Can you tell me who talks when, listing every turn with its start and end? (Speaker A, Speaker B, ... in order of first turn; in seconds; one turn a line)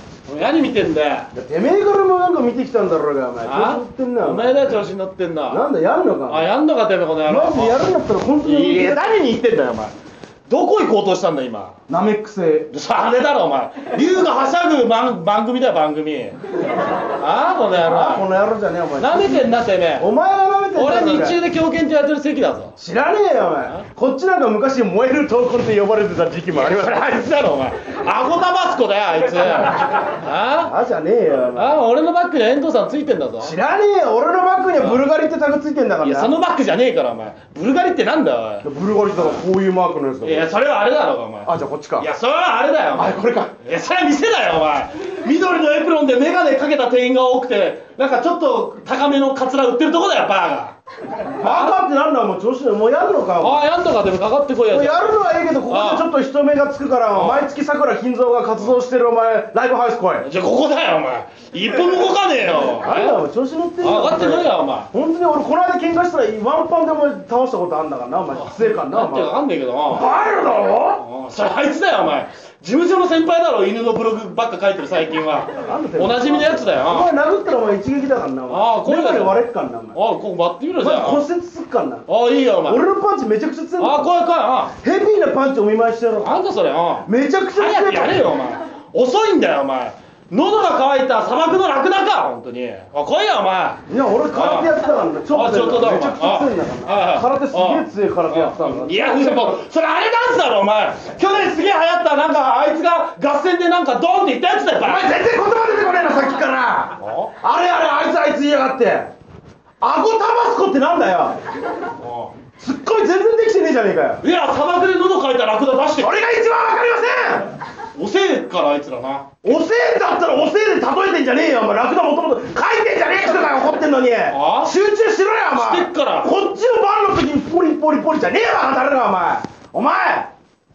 Speaker A: 0.3-1.3
Speaker B: 1.3-4.6
Speaker A: 3.4-5.7
Speaker B: 5.5-6.5
Speaker A: 6.3-7.8
Speaker B: 7.2-9.2
Speaker A: 8.4-9.9
Speaker A: 10.5-11.8
Speaker B: 11.9-12.7
Speaker A: 12.7-16.4
Speaker A: 17.1-18.3
Speaker B: 17.8-21.4
Speaker A: 19.0-20.1
Speaker A: 20.8-22.8
Speaker B: 22.8-27.2
Speaker A: 26.5-30.7
Speaker B: 30.6-31.8
Speaker A: 31.6-33.6
Speaker B: 33.4-36.3
Speaker A: 34.8-35.0
Speaker A: 36.0-39.4
Speaker B: 38.6-40.5
Speaker A: 40.2-50.8
Speaker B: 41.5-42.1
Speaker B: 43.0-43.5
Speaker B: 51.4-53.6
Speaker A: 51.4-51.8
Speaker A: 53.4-56.1
Speaker B: 54.7-60.3
Speaker A: 57.1-57.4
Speaker A: 60.2-63.2
Speaker B: 61.6-69.4
Speaker A: 63.8-64.9
Speaker A: 68.3-70.1
Speaker B: 69.9-71.0
Speaker A: 70.8-77.1
Speaker B: 75.6-80.0
Speaker A: 78.5-79.4
Speaker A: 79.9-81.2
Speaker B: 80.8-82.0
Speaker A: 82.1-82.8
Speaker B: 82.7-84.1
Speaker A: 83.8-84.7
Speaker B: 84.8-86.3
Speaker A: 86.2-93.8
Speaker B: 87.0-88.3
Speaker B: 93.9-99.6
Speaker A: 94.3-105.1
Speaker B: 104.8-109.1
Speaker A: 107.0-107.3
Speaker B: 109.8-111.4
Speaker A: 112.0-112.3
Speaker B: 112.6-114.2
Speaker A: 114.2-116.2
Speaker B: 116.0-117.5
Speaker A: 118.0-119.3
Speaker B: 119.4-130.3
Speaker A: 124.3-124.7
Speaker A: 125.5-126.3